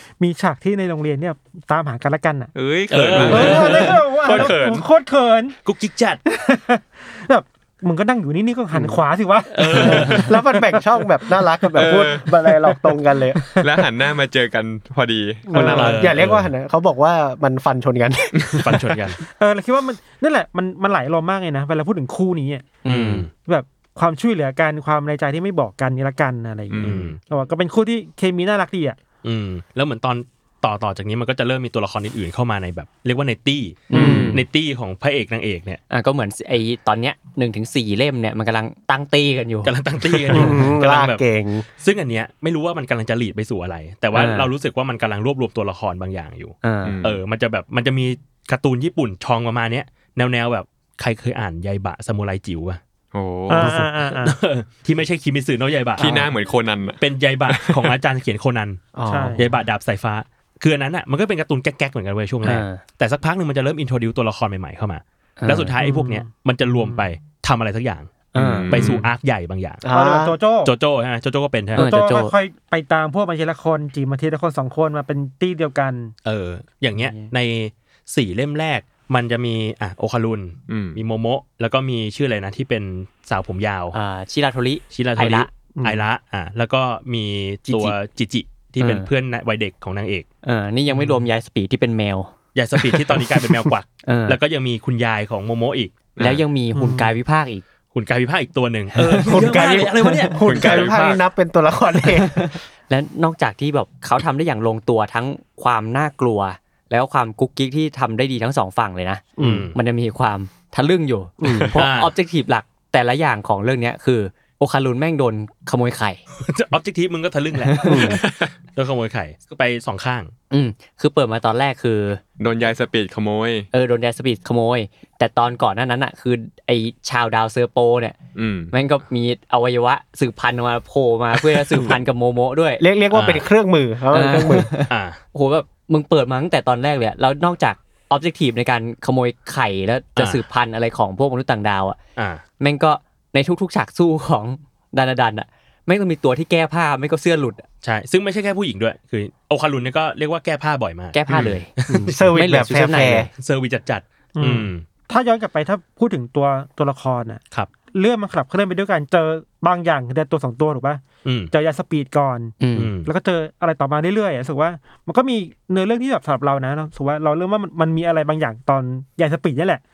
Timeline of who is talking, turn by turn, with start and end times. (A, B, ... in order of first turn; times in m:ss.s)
0:00.2-0:02.5 A
0:02.6-0:04.9 B
0:02.9-0:04.5 C
0:03.2-0:05.6 A
0:05.6-0:06.2 C
0:06.3-0:11.0 A
0:08.7-0:09.0 D
0:09.5-0:10.4 C
0:09.8-0:13.4 D
0:11.6-0:12.0 A
0:11.8-0:12.3 B
0:13.4-0:13.7 A
0:13.6-0:16.1 B
0:15.5-0:19.0 D
0:15.6-0:16.0 A
0:15.6-0:16.5 C
0:18.6-0:19.2 C
0:19.4-0:22.7 A
0:22.8-0:23.3 E
0:22.9-0:23.3 C
0:23.4-0:29.0 A
0:26.7-0:27.1 B
0:26.8-0:27.2 C
0:29.2-0:35.8 C
0:33.9-0:34.4 E
0:33.9-0:34.4 D
0:35.9-0:39.7 E
0:39.6-0:41.2 C
0:40.3-0:41.7 D
0:41.8-0:52.8 C
0:44.1-0:44.5 E
0:46.6-0:47.0 E
0:46.8-0:47.2 B
0:53.1-0:53.8 B
0:53.5-0:54.4 A
0:53.5-0:56.1 C
0:56.0-0:57.9 B
0:56.0-0:56.3 D
0:57.0-1:09.8 C
0:59.0-0:59.5 D
0:59.1-0:59.5 A
1:02.4-1:02.8 E
1:05.4-1:05.8 E
1:05.8-1:07.0 A
1:08.3-1:08.8 E
1:08.4-1:09.0 B
1:09.8-1:10.4 D
1:09.9-1:10.7 A
1:10.6-1:11.9 C
1:11.7-1:16.1 A
1:11.8-1:12.4 E
1:16.2-1:24.0 C
1:17.0-1:17.3 E
1:20.7-1:21.0 B
1:23.9-1:25.5 E
1:24.9-1:30.3 C
1:25.8-1:26.0 D
1:28.8-1:29.1 E
1:30.4-1:32.3 E
1:32.6-1:36.0 C
1:34.0-1:34.4 E
1:36.2-1:36.4 B
1:36.2-1:37.6 E
1:36.8-1:37.2 A
1:37.9-1:40.9 C
1:39.0-1:39.3 E
1:39.3-1:42.6 D
1:40.4-1:41.2 B
1:42.2-1:56.2 E
1:49.4-1:49.7 D
1:49.4-1:49.8 C
1:51.4-1:51.8 D
1:51.8-1:52.1 C
1:56.4-2:00.3 C
1:57.6-1:58.1 E
1:57.8-1:58.2 D
2:00.5-2:02.2 E
2:02.4-2:03.7 B
2:03.7-2:08.2 E
2:08.4-2:08.7 B
2:08.7-2:12.8 E
2:11.4-2:11.8 C
2:12.8-2:14.7 D
2:13.1-2:13.5 C
2:14.1-2:22.0 E
2:14.9-2:15.2 C
2:20.2-2:20.4 C
2:22.2-2:22.4 C
2:22.6-2:27.6 E
2:27.8-2:32.3 C
2:31.1-2:31.7 E
2:31.9-2:33.3 D
2:32.3-2:33.3 E
2:33.4-2:34.8 C
2:34.4-2:49.8 A
2:41.2-2:41.5 C
2:42.6-2:42.9 E
2:42.8-2:43.1 C